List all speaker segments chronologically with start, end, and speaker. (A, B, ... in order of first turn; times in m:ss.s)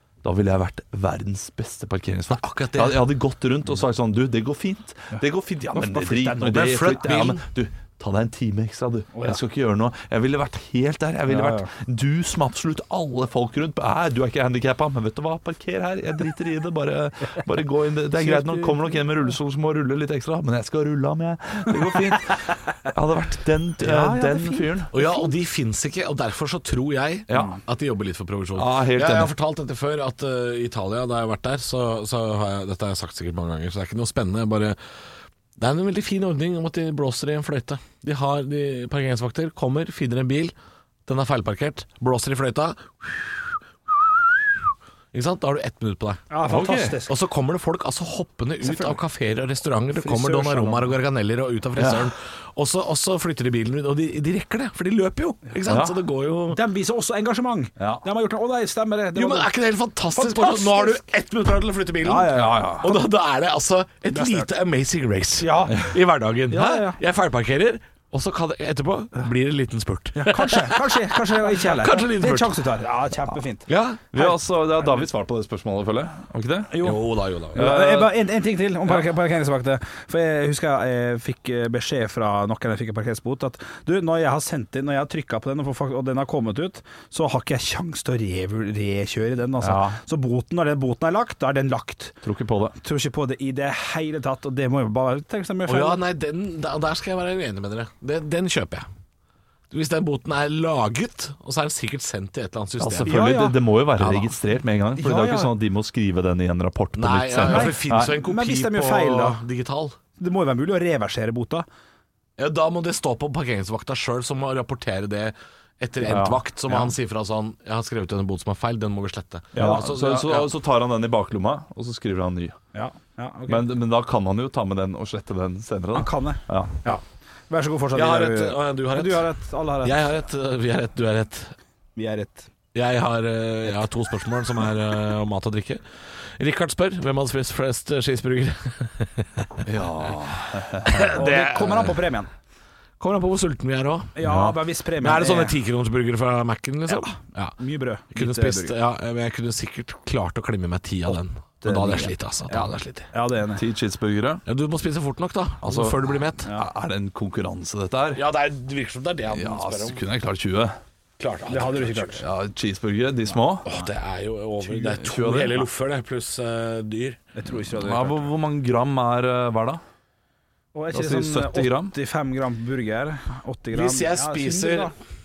0:00.2-0:24.9 A
0:02.3-0:03.1 B
0:05.7-0:06.7 C
0:06.4-0:07.4 B
0:09.1-0:09.4 C
0:11.3-0:11.7 C
0:18.2-0:19.0 C
0:23.8-0:25.3 C
0:24.9-0:34.8 B
0:27.3-0:27.6 A
0:28.6-0:29.3 A
0:35.6-0:40.5 B
0:41.0-0:44.4 B
0:45.1-0:46.3 B
0:46.3-0:47.2 C
0:46.4-0:47.0 A
0:47.0-0:56.6 B
0:48.6-0:49.0 C
0:50.0-0:50.9 C
0:51.8-0:52.1 A
0:55.6-0:56.0 A
0:56.5-0:59.5 C
0:57.8-0:58.0 A
0:59.1-1:12.6 B
1:00.1-1:01.0 C
1:02.0-1:03.0 C
1:02.3-1:02.9 A
1:04.1-1:04.5 C
1:05.4-1:05.9 C
1:06.5-1:07.0 C
1:10.2-1:14.3 C
1:13.7-1:14.0 B
1:14.1-1:16.8 A
1:16.7-1:17.0 C
1:16.8-1:17.6 B
1:17.5-1:32.2 C
1:17.5-1:18.1 A
1:29.6-1:30.0 A
1:32.2-1:32.8 A
1:32.8-1:36.0 C
1:35.7-1:38.8 B
1:39.7-1:43.3 B
1:42.8-1:48.1 A
1:43.0-1:43.5 C
1:44.0-1:44.3 B
1:45.0-1:45.5 C
1:47.0-1:50.0 B
1:47.4-1:49.4 C
1:50.2-1:51.6 C
1:52.4-2:00.5 B
1:56.1-1:56.4 A
1:56.1-1:56.9 C
1:59.5-1:59.9 C
1:59.6-2:02.6 A
2:02.7-2:03.6 C
2:03.5-2:06.7 A
2:05.9-2:10.0 C
2:07.9-2:09.3 B
2:09.8-2:11.5 B
2:12.0-2:12.5 C
2:12.7-2:19.6 B
2:19.6-2:21.1 A
2:20.8-2:21.9 B
2:21.1-2:22.3 C
2:23.0-2:24.2 B
2:24.2-2:25.6 C
2:24.2-2:24.6 A
2:25.0-2:27.6 B
2:26.9-2:28.8 C
2:28.1-2:33.1 B
2:31.6-2:33.6 C
2:33.6-2:34.4 A
2:34.4-2:36.5 B
2:35.6-2:38.2 A
2:38.1-2:40.0 B
2:39.3-2:40.8 A
2:41.2-2:42.2 B
2:41.5-2:42.2 C
2:42.1-2:43.6 A
2:43.6-2:47.2 B
2:44.7-2:45.7 A
2:47.3-2:48.3 C
2:47.7-2:49.8 A
2:50.7-2:54.9 C
2:50.9-2:51.9 A
2:53.7-2:54.9 B